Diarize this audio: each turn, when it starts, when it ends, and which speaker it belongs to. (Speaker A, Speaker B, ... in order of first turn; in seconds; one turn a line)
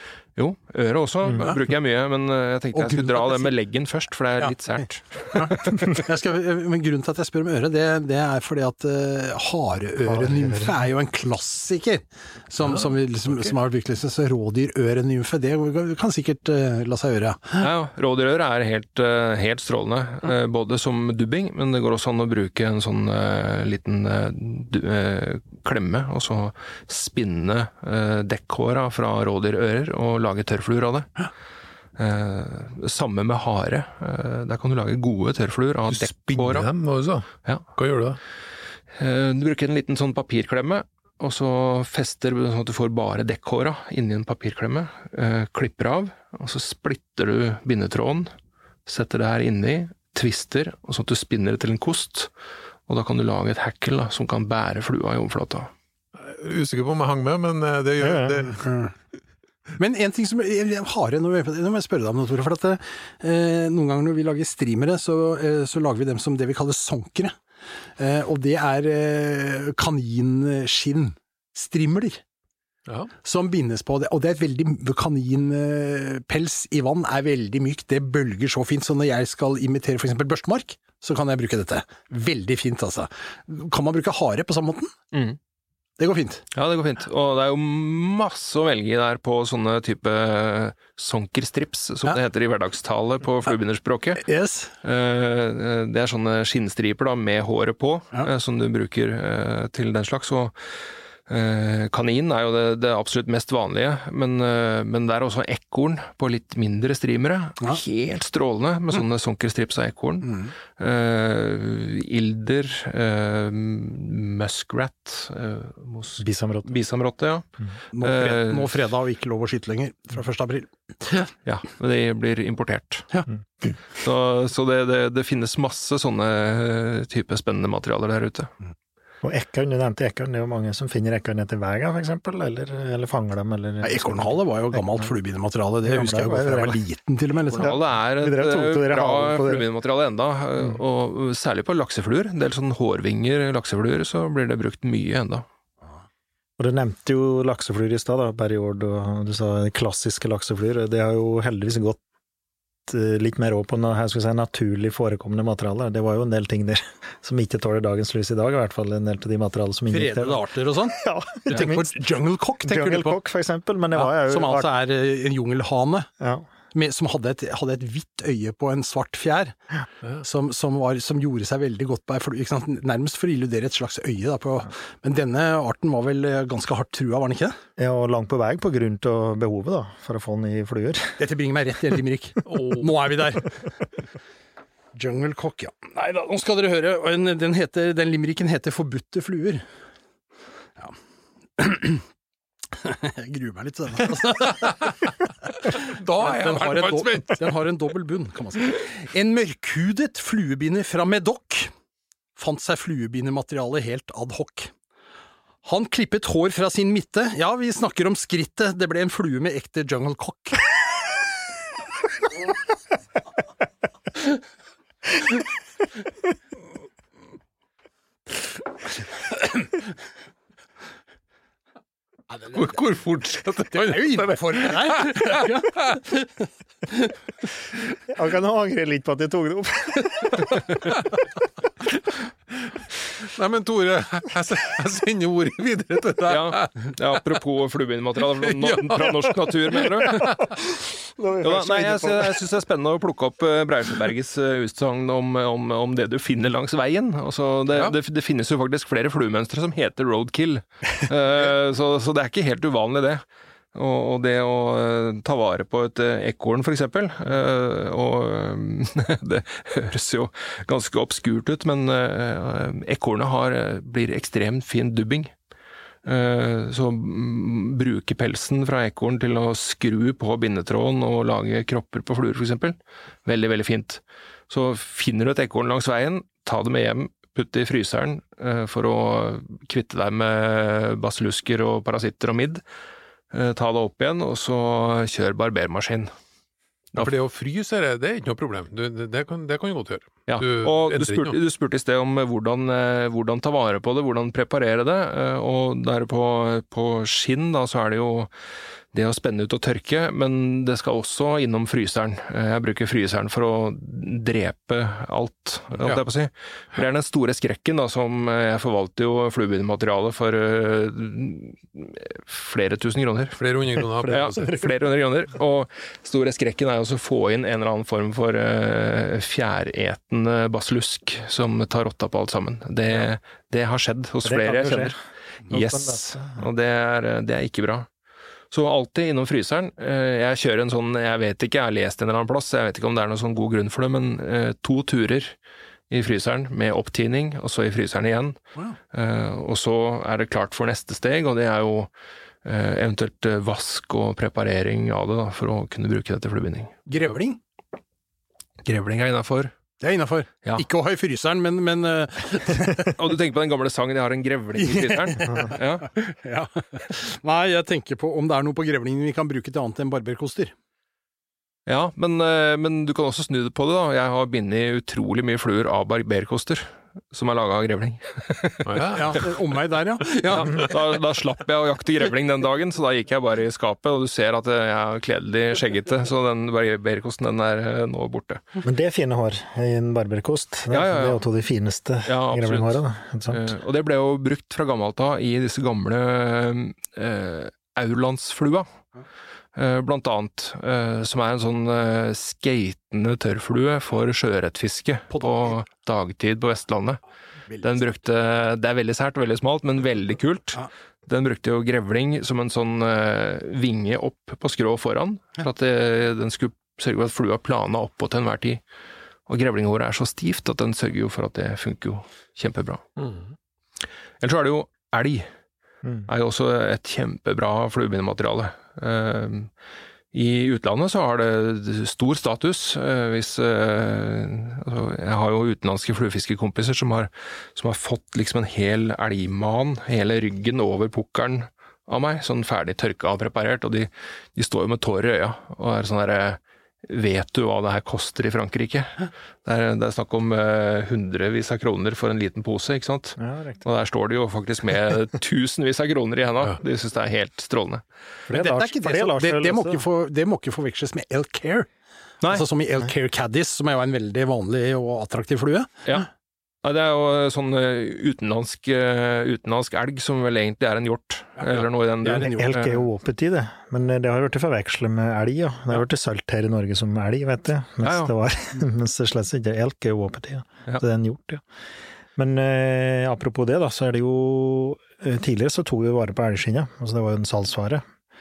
Speaker A: 0.4-5.8
Speaker B: 2.7-3.5
Speaker B: 5.3-17.7
Speaker C: 10.0-10.8
Speaker A: 17.6-31.1
Speaker A: 32.0-36.7
Speaker D: 35.9-38.2
Speaker A: 39.0-48.3
Speaker A: 48.9-52.3
Speaker A: 52.9-55.7
Speaker D: 56.2-58.7
Speaker C: 58.0-58.5
Speaker B: 58.6-58.9
Speaker B: 59.8-67.4
Speaker B: 68.0-72.2
Speaker B: 73.2-84.9
Speaker A: 85.1-85.4
Speaker B: 86.0-86.5
Speaker A: 86.5-94.2
Speaker B: 94.2-94.7
Speaker A: 94.8-100.5
Speaker A: 101.3-117.5
Speaker B: 110.2-110.5
Speaker C: 116.2-116.7
Speaker B: 117.9-121.2
Speaker A: 118.0-118.8
Speaker A: 121.5-123.1
Speaker A: 123.9-128.5
Speaker C: 129.2-135.1
Speaker B: 133.8-137.8
Speaker C: 135.8-136.8
Speaker A: 137.5-145.5
Speaker C: 137.6-139.7
Speaker C: 146.6-152.0
Speaker C: 152.9-161.9
Speaker B: 159.9-163.2
Speaker C: 162.6-164.7
Speaker B: 163.9-166.1
Speaker C: 166.2-166.5
Speaker B: 166.7-169.6
Speaker B: 170.2-177.6
Speaker C: 177.8-181.2
Speaker B: 181.2-183.7
Speaker D: 182.5-182.9
Speaker B: 184.9-189.7
Speaker B: 191.6-192.0
Speaker B: 192.8-201.7
Speaker D: 194.5-194.8
Speaker D: 195.6-197.5
Speaker B: 202.4-204.7
Speaker B: 205.6-210.7
Speaker D: 222.5-226.0
Speaker B: 223.7-227.1
Speaker C: 228.1-230.5
Speaker D: 232.7-236.9
Speaker A: 236.3-240.3
Speaker D: 238.4-240.3
Speaker C: 240.2-242.4
Speaker A: 241.4-253.2
Speaker A: 253.7-265.3
Speaker A: 266.1-282.6
Speaker A: 283.3-286.1
Speaker D: 287.0-291.4
Speaker A: 290.3-298.3
Speaker A: 298.9-313.4
Speaker D: 313.4-314.6
Speaker A: 314.0-324.9
Speaker C: 314.0-314.7
Speaker C: 324.2-324.9
Speaker A: 325.5-327.9
Speaker C: 325.5-326.5
Speaker A: 328.5-335.4
Speaker A: 335.9-338.4
Speaker A: 338.9-341.9
Speaker A: 342.4-346.8
Speaker B: 346.9-347.4
Speaker A: 348.7-349.5
Speaker B: 349.8-352.9
Speaker A: 352.8-355.9
Speaker B: 354.6-360.5
Speaker A: 361.7-369.3
Speaker D: 368.7-369.3
Speaker B: 368.9-370.7
Speaker A: 370.3-378.4
Speaker C: 378.6-383.4
Speaker A: 380.7-381.2
Speaker A: 382.1-382.8
Speaker A: 383.3-388.7
Speaker A: 389.6-397.0
Speaker A: 397.6-408.6
Speaker A: 409.3-412.8
Speaker D: 413.0-413.3
Speaker A: 414.2-415.3
Speaker A: 416.1-419.5
Speaker A: 420.1-447.8
Speaker C: 443.2-443.6
Speaker C: 448.3-449.8
Speaker B: 448.3-451.7
Speaker B: 452.3-455.9
Speaker A: 456.6-462.8
Speaker B: 462.0-462.8
Speaker C: 462.4-471.4
Speaker A: 467.8-468.1
Speaker C: 472.2-477.8